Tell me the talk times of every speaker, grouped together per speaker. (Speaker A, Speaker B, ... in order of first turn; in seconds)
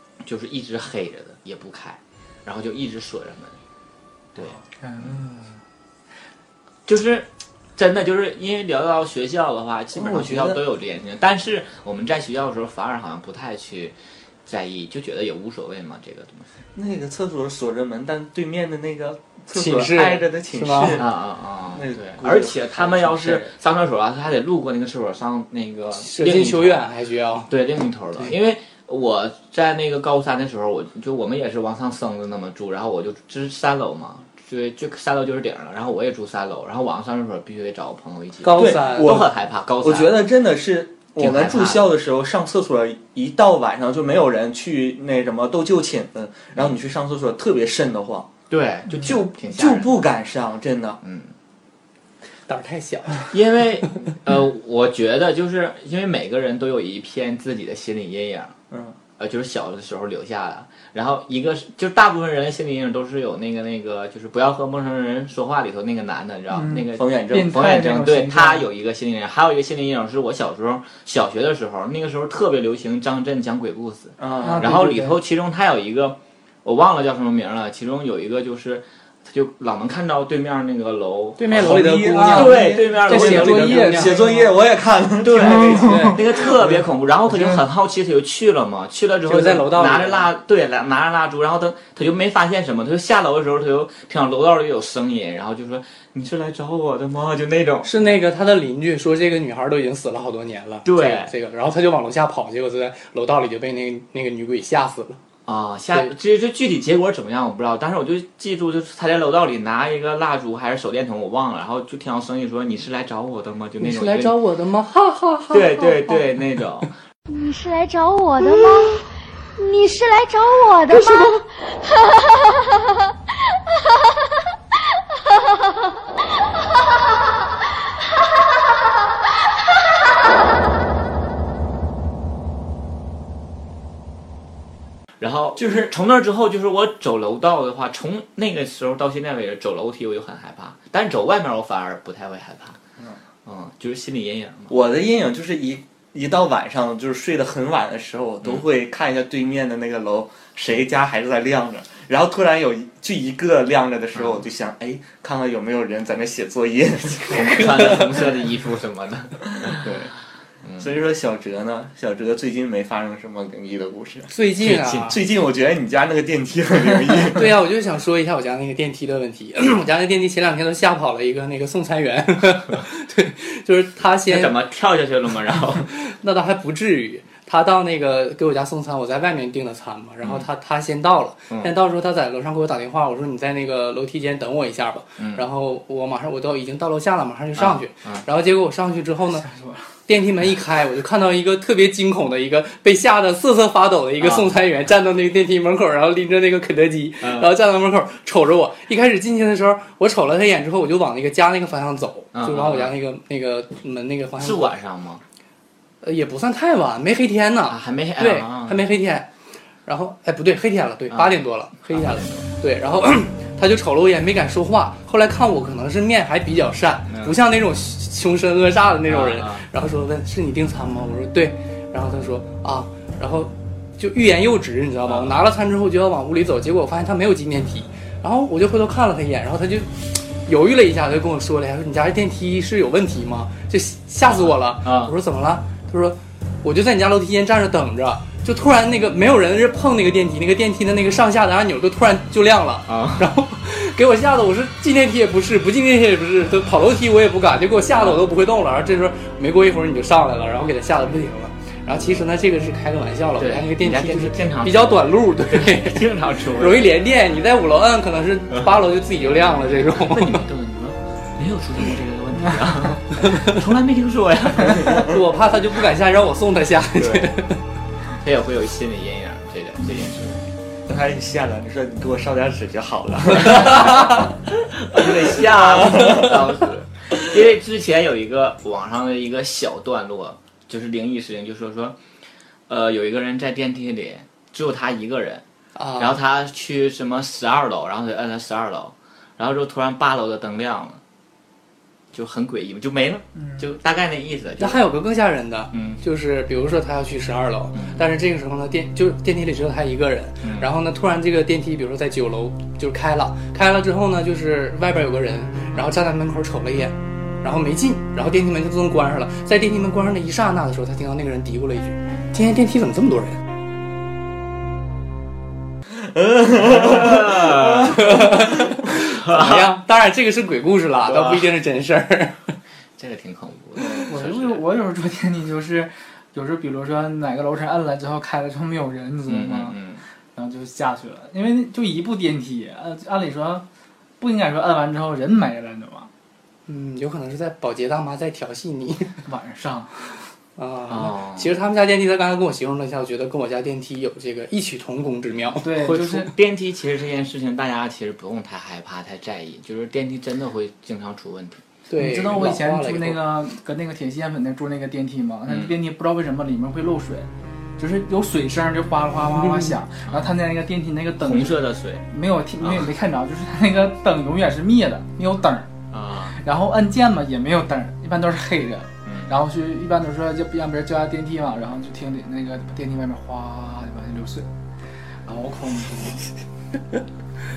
Speaker A: 0.2-3.6, 4.3-5.1, 6.9-16.5, 20.9-26.9, 27.5-40.2, 41.1-41.9, 48.5-50.1, 51.0-51.3, 53.3-58.5, 59.2-84.0, 85.2-98.0, 100.8-101.3, 105.5-114.3, 115.5-116.9, 135.2-142.8, 143.4-144.8, 154.1-154.4, 157.3-160.0, 160.6-160.9, 164.6-165.2, 174.2-175.9, 180.2-180.5, 185.2-185.4, 187.5-188.2, 194.2-194.5, 197.2-197.5, 202.3-202.9, 204.4-205.2, 207.7-208.9, 211.1-212.5, 217.1-217.4, 219.1-219.7, 225.0-225.4, 234.2-235.1, 242.9-243.3, 247.9-248.2, 253.4-256.9, 258.6-265.1, 268.2-270.4, 273.5-274.1, 274.8-282.0, 282.7-285.4, 286.0-291.0, 292.1-294.9, 295.7-296.0, 297.7-298.1, 300.4-300.7, 316.5-318.3, 318.9-319.7, 321.0-321.5, 323.0-324.6, 329.3-330.0, 340.9-341.5, 345.7-351.6, 355.5-355.7, 360.1-360.4, 361.2-362.0, 362.6-362.9, 365.9-366.4, 369.0-369.3
Speaker B: 4.8-5.6, 66.5-68.7, 74.4-75.2, 81.6-84.5, 85.8-86.1, 87.3-87.6, 189.4-189.9, 324.1-329.8, 330.3-333.6, 334.2-336.1, 339.2-340.1, 345.6-346.3, 351.9-365.7, 366.3-374.5, 375.2-376.3
Speaker C: 9.9-10.6, 16.7-21.1, 21.7-23.5, 38.5-48.3, 49.0-51.0, 58.7-59.0, 66.9-67.6, 74.2-74.8, 81.6-83.1, 83.8-86.8, 135.6-135.8, 144.7-158.1, 159.7-160.1, 160.8-164.3, 165.0-167.5, 270.9-274.3, 274.9-276.4, 316.0-318.1
Speaker D: 19.5-21.0, 26.0-27.5, 38.4-39.1, 52.5-53.3, 81.4-84.2, 85.8-86.2, 89.2-90.3, 97.8-105.2, 113.8-116.3, 120.9-121.4, 157.8-158.2, 164.3-165.2, 167.3-174.6, 175.8-189.5, 190.1-204.7, 206.0-209.3, 209.8-260.4, 263.2-263.5, 264.9-267.6, 285.8-286.2, 294.6-313.4, 317.9-322.6, 336.7-339.2, 340.6-345.7, 351.9-353.2, 359.4-359.7
Speaker E: 117.3-123.1